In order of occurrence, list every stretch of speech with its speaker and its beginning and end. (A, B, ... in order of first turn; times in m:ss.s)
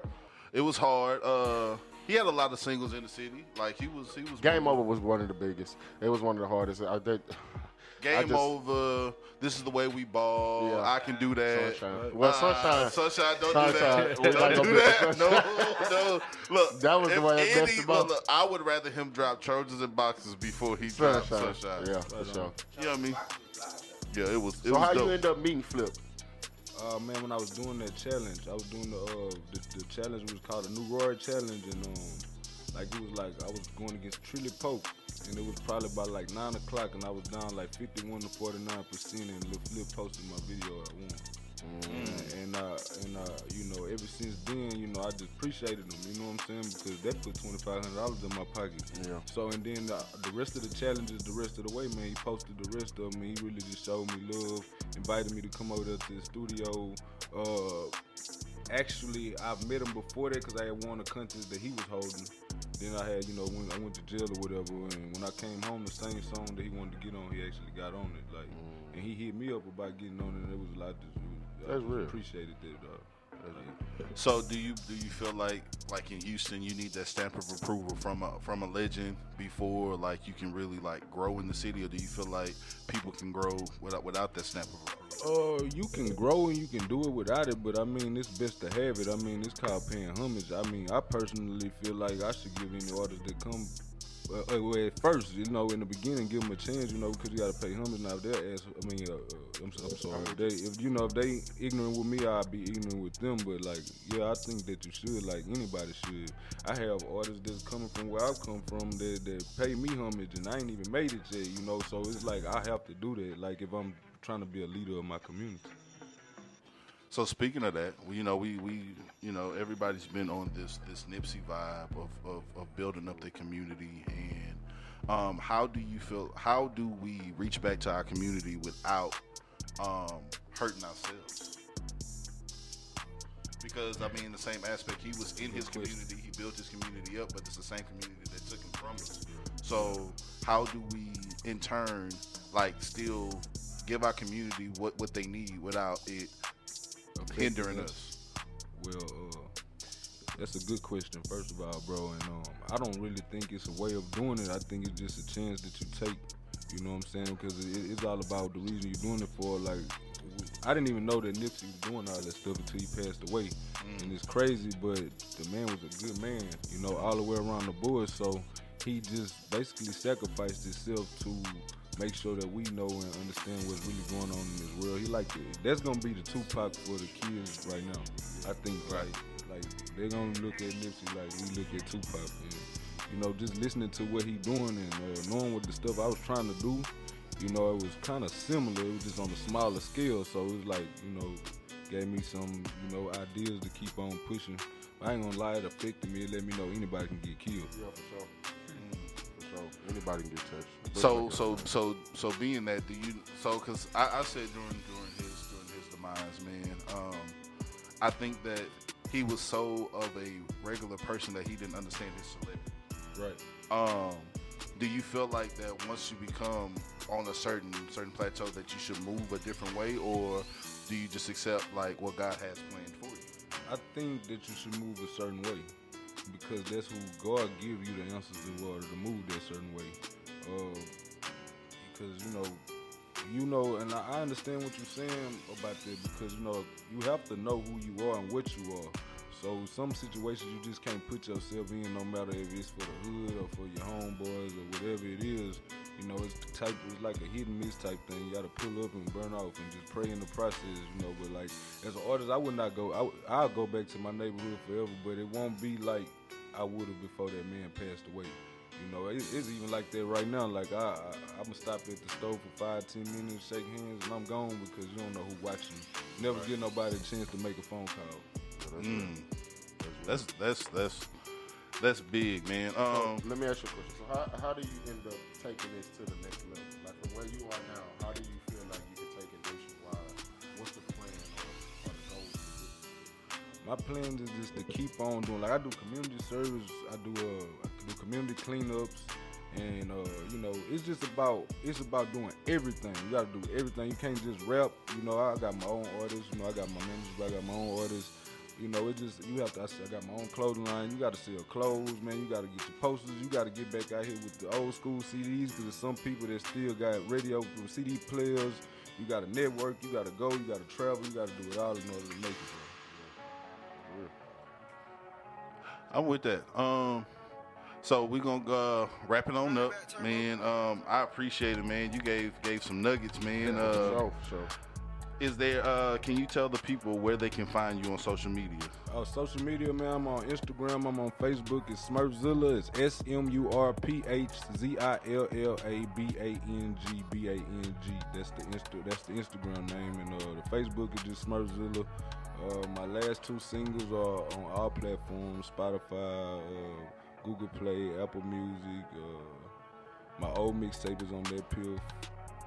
0:00.5-0:04.8 A
0:04.4-0:08.5 B
0:08.0-0:21.9 A
0:10.6-0:15.9 B
0:11.9-0:12.2 C
0:13.8-0:14.8 C
0:16.7-0:18.1 B
0:20.9-0:22.6 B
0:22.0-0:22.6 C
0:22.7-0:23.3 A
0:24.1-0:25.2 A
0:24.6-0:26.0 B
0:26.7-0:41.3 C
0:41.6-0:42.3 B
0:41.8-0:57.9 C
0:41.9-0:42.3 A
0:48.9-0:49.2 B
0:58.7-1:13.8 C
1:08.5-1:09.0 B
1:11.6-1:12.2 B
1:13.4-1:13.7 B
1:14.1-1:25.2 A
1:25.2-1:33.8 C
1:34.3-1:55.7 C
1:39.8-1:40.5 B
1:57.1-2:09.2 A
2:09.8-2:11.6 A
2:13.6-2:26.3 A
2:15.4-2:16.0 C
2:19.7-2:20.0 C
2:27.2-2:28.1 C
2:27.3-2:28.1 A
2:28.7-2:29.5 C
2:30.4-3:17.7 C
2:43.8-2:44.2 A
2:58.8-2:59.1 A
3:17.7-3:18.3 B
3:18.7-3:19.1 A
3:19.3-3:21.7 B
3:20.9-3:27.4 A
3:28.0-3:32.7 A
3:33.1-3:33.4 C
3:33.7-3:43.3 A
3:43.6-3:45.7 C
3:46.2-3:50.9 C
3:51.8-3:52.6 C
3:53.2-4:28.2 C
4:26.2-4:26.5 B
4:28.6-4:29.1 B
4:28.8-4:29.3 A
4:29.8-4:30.2 B
4:30.0-4:31.1 A
4:31.8-4:33.2 A
4:32.9-4:42.8 B
4:43.6-5:12.8 C
5:13.8-5:14.1 B
5:15.9-5:17.1 A
5:17.8-5:24.0 A
5:23.4-5:24.5 B
5:25.2-5:28.7 A
5:28.9-5:49.5 C
5:50.2-5:52.1 C